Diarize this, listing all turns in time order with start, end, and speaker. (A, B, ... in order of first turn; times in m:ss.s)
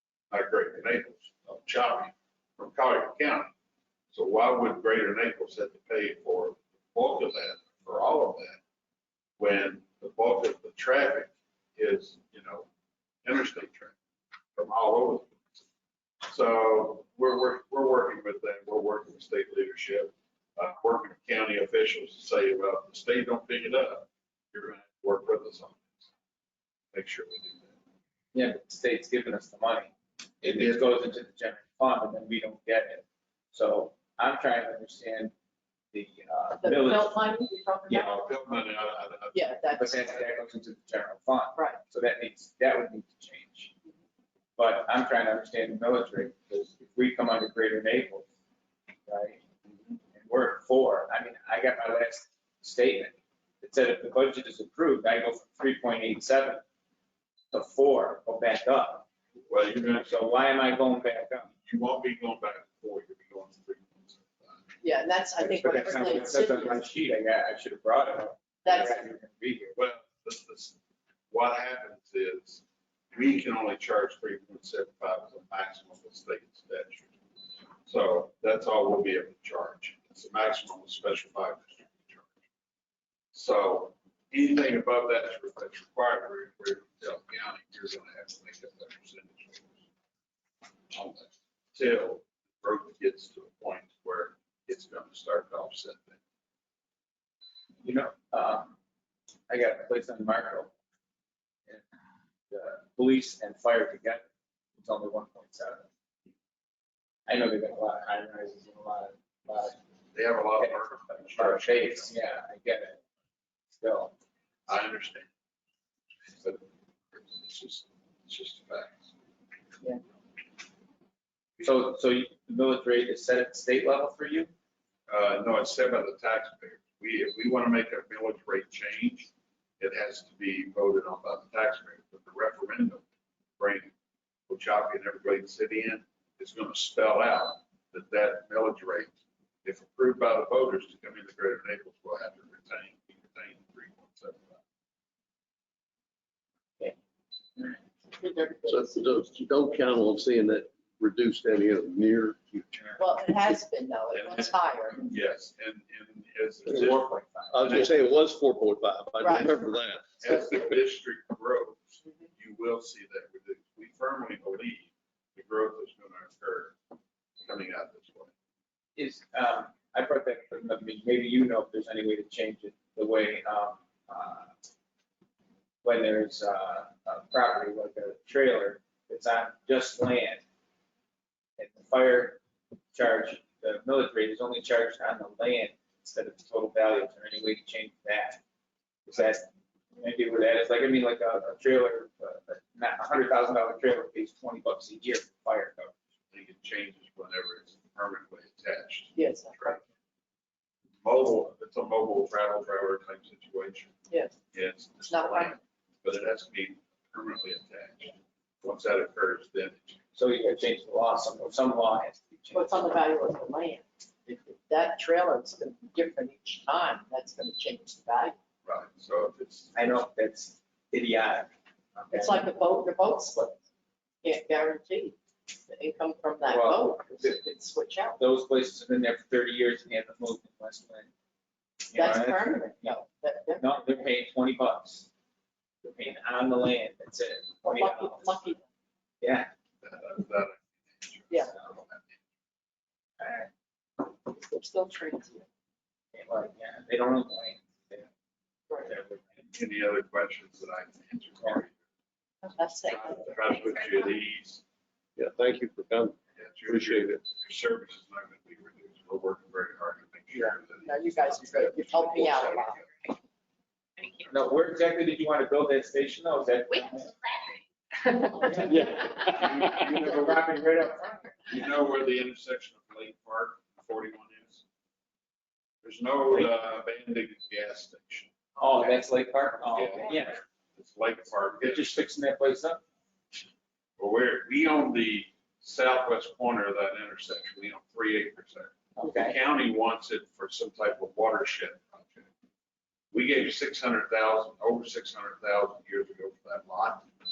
0:00.3-0:03.5 A
0:04.1-0:08.6 A
0:09.4-0:12.7 A
0:13.2-0:14.0 A
0:14.6-0:15.4 A
0:16.3-0:26.1 A
0:26.9-0:27.8 A
0:28.3-0:35.3 B
0:30.4-0:30.8 A
0:35.9-0:37.2 B
0:36.6-0:38.2 C
0:37.9-0:39.6 A
0:39.3-0:40.1 C
0:39.8-0:43.7 B
0:44.6-0:48.3 B
0:49.1-0:49.4 B
0:50.2-0:56.6 B
0:57.5-0:59.0 B
0:59.5-1:00.3 A
0:59.9-1:01.5 B
1:01.6-1:04.7 A
1:04.8-1:06.8 C
1:05.4-1:09.8 B
1:08.6-1:09.0 C
1:09.8-1:10.8 A
1:11.3-1:17.2 A
1:17.8-1:22.4 A
1:23.3-1:29.8 A
1:30.9-1:36.2 A
1:37.8-1:38.8 B
1:39.5-1:40.7 B
1:42.5-1:44.2 B
1:44.8-1:45.9 B
1:47.3-1:49.8 B
1:50.1-1:52.2 A
1:50.6-1:53.0 B
1:53.8-1:54.1 B
1:54.7-1:55.3 A
1:56.3-1:59.1 A
2:01.6-2:04.5 B
2:05.1-2:13.0 A
2:13.6-2:13.9 A
2:14.5-2:24.6 A
2:28.2-2:28.9 C
2:28.7-2:32.9 D
2:33.0-2:35.0 C
2:34.1-2:37.9 A
2:36.7-2:36.9 D
2:36.8-2:38.0 B
2:37.5-2:40.6 D
2:39.2-2:39.5 C
2:40.2-2:46.8 A
2:47.4-2:48.3 A
2:49.0-2:54.5 B
2:55.8-3:00.4 B
3:01.6-3:02.4 B
3:02.9-3:08.4 B
3:09.1-3:09.5 B
3:10.0-3:15.9 B
3:16.3-3:19.8 A
3:19.2-3:19.8 C
3:21.0-3:23.9 A
3:24.1-3:24.4 C
3:24.5-3:30.0 A
3:25.0-3:25.6 C
3:30.2-3:32.9 B
3:32.5-3:38.4 C
3:38.6-3:39.8 A
3:39.8-3:42.5 B
3:42.1-3:43.6 C
3:44.2-3:48.2 C
3:46.5-3:47.4 B
3:48.2-3:51.1 B
3:51.9-3:53.0 B
3:51.9-3:54.0 C
3:53.6-3:55.1 B
3:55.8-3:58.6 B
3:57.6-3:58.6 C
3:59.2-3:59.5 B
3:59.8-4:02.2 A
4:03.2-4:03.5 B
4:04.2-4:05.5 C
4:06.2-4:08.1 B
4:08.8-4:09.2 B
4:09.5-4:11.8 A
4:12.4-4:13.6 C
4:12.8-4:14.6 A
4:15.2-4:17.2 D
4:16.4-4:22.8 A
4:20.8-4:22.8 C
4:24.0-4:24.3 E
4:24.3-4:27.1 B
4:26.9-4:27.6 E
4:28.4-4:31.2 B
4:28.6-4:29.6 E
4:29.2-4:30.4 A
4:31.5-4:34.6 A
4:35.8-4:39.0 A
4:38.6-4:40.4 B
4:39.7-4:42.0 A
4:41.6-4:42.8 B
4:44.0-4:52.3 A
4:49.0-4:49.4 B
4:53.1-4:57.1 A